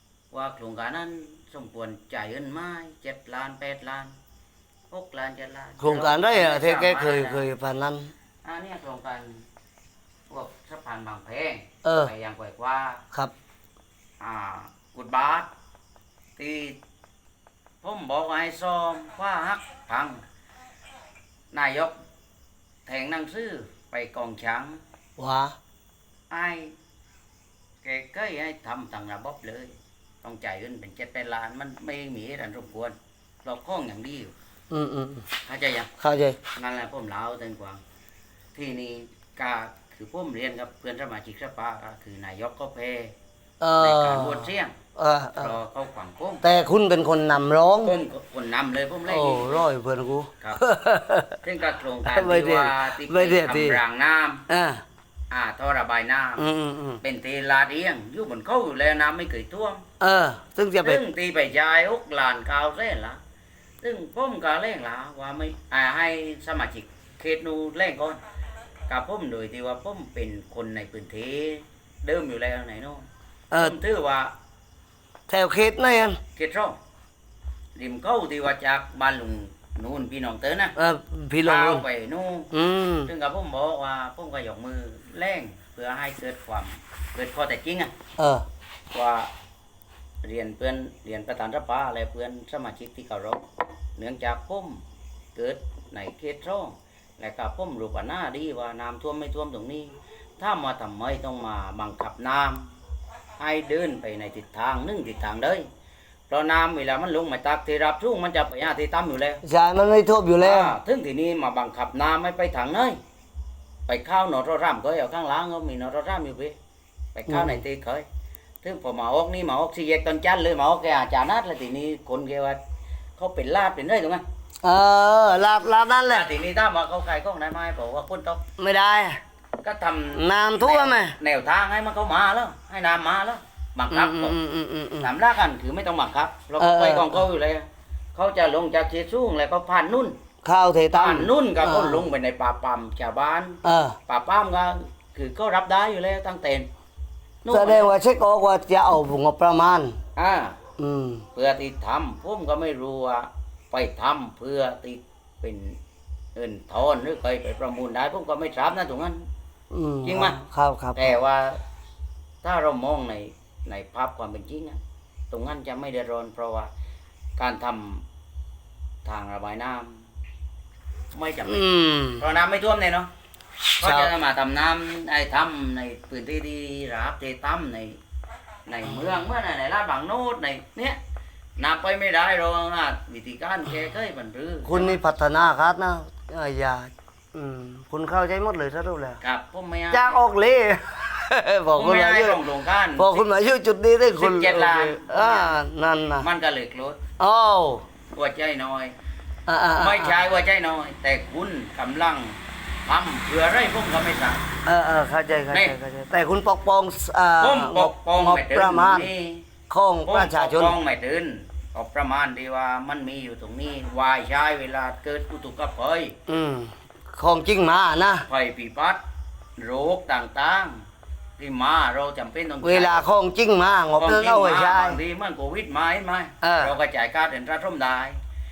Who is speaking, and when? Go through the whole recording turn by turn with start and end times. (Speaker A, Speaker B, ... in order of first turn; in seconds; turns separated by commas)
Speaker A: 0.3-4.1, Speaker A: 4.9-7.5, Speaker B: 5.8-8.1, Speaker A: 8.4-9.4, Speaker A: 10.3-13.0, Speaker B: 11.8-12.1, Speaker A: 14.2-15.5, Speaker A: 16.4-16.8, Speaker A: 17.8-20.2, Speaker A: 21.5-22.0, Speaker A: 22.9-24.8, Speaker B: 25.2-25.6, Speaker A: 26.3-26.7, Speaker A: 27.8-34.3, Speaker B: 34.7-35.3, Speaker A: 35.5-35.9, Speaker B: 36.0-36.4, Speaker A: 36.6-37.8, Speaker A: 38.5-43.1, Speaker B: 43.6-45.5, Speaker A: 43.8-44.8, Speaker A: 45.4-46.4, Speaker B: 46.4-48.0, Speaker A: 47.8-49.6, Speaker B: 49.1-51.4, Speaker A: 51.4-54.4, Speaker B: 52.1-53.8, Speaker B: 54.5-54.8, Speaker A: 55.3-56.5, Speaker B: 56.4-57.0, Speaker A: 57.0-59.9, Speaker B: 60.0-61.0, Speaker A: 60.8-63.2, Speaker A: 63.8-68.2, Speaker A: 68.9-73.1, Speaker B: 73.5-73.8, Speaker A: 73.6-74.3, Speaker B: 75.3-76.2, Speaker A: 76.4-76.8, Speaker A: 77.8-80.8, Speaker B: 80.8-81.8, Speaker A: 81.4-82.5, Speaker B: 82.5-83.1, Speaker A: 83.0-87.9, Speaker B: 88.2-88.5, Speaker A: 88.9-89.3, Speaker A: 90.2-93.5, Speaker A: 94.0-94.8, Speaker A: 95.3-102.7, Speaker A: 103.4-105.7, Speaker A: 106.3-109.4, Speaker B: 109.4-110.7, Speaker A: 110.4-113.0, Speaker A: 113.9-116.6, Speaker A: 117.2-118.0, Speaker B: 117.3-117.6, Speaker A: 118.6-122.6, Speaker A: 123.2-124.2, Speaker B: 124.6-126.3, Speaker A: 126.1-128.4, Speaker B: 128.6-129.2, Speaker A: 129.6-134.4, Speaker B: 130.1-131.2, Speaker B: 133.9-135.1, Speaker A: 135.0-140.2, Speaker B: 136.6-137.2, Speaker B: 140.4-142.1, Speaker A: 140.9-146.7, Speaker B: 143.6-144.0, Speaker A: 147.4-147.9, Speaker B: 147.5-150.0, Speaker A: 150.2-150.6, Speaker B: 150.8-151.3, Speaker A: 151.3-155.8, Speaker A: 156.3-159.3, Speaker B: 159.7-161.2, Speaker A: 160.0-160.4, Speaker A: 160.9-161.6, Speaker A: 162.4-164.8, Speaker A: 165.3-166.7, Speaker A: 167.4-168.1, Speaker A: 169.1-170.0, Speaker A: 171.1-173.1, Speaker B: 171.5-172.2, Speaker B: 173.8-174.1, Speaker A: 173.8-178.0, Speaker A: 178.7-181.0, Speaker A: 181.6-185.0, Speaker B: 184.7-189.2, Speaker A: 189.2-190.2, Speaker B: 189.9-192.4, Speaker A: 191.7-193.2, Speaker B: 193.0-196.3, Speaker A: 194.1-195.6, Speaker A: 196.2-197.0, Speaker B: 197.2-197.8, Speaker A: 198.1-198.9, Speaker B: 199.5-200.2, Speaker A: 199.7-204.5, Speaker B: 204.7-209.1, Speaker A: 205.5-205.8, Speaker A: 207.4-209.5, Speaker B: 209.7-210.8, Speaker A: 210.1-216.2, Speaker B: 216.3-218.3, Speaker A: 218.3-219.0, Speaker A: 219.6-220.8, Speaker A: 221.4-223.1, Speaker B: 222.6-225.0, Speaker A: 224.0-228.2, Speaker B: 226.4-226.8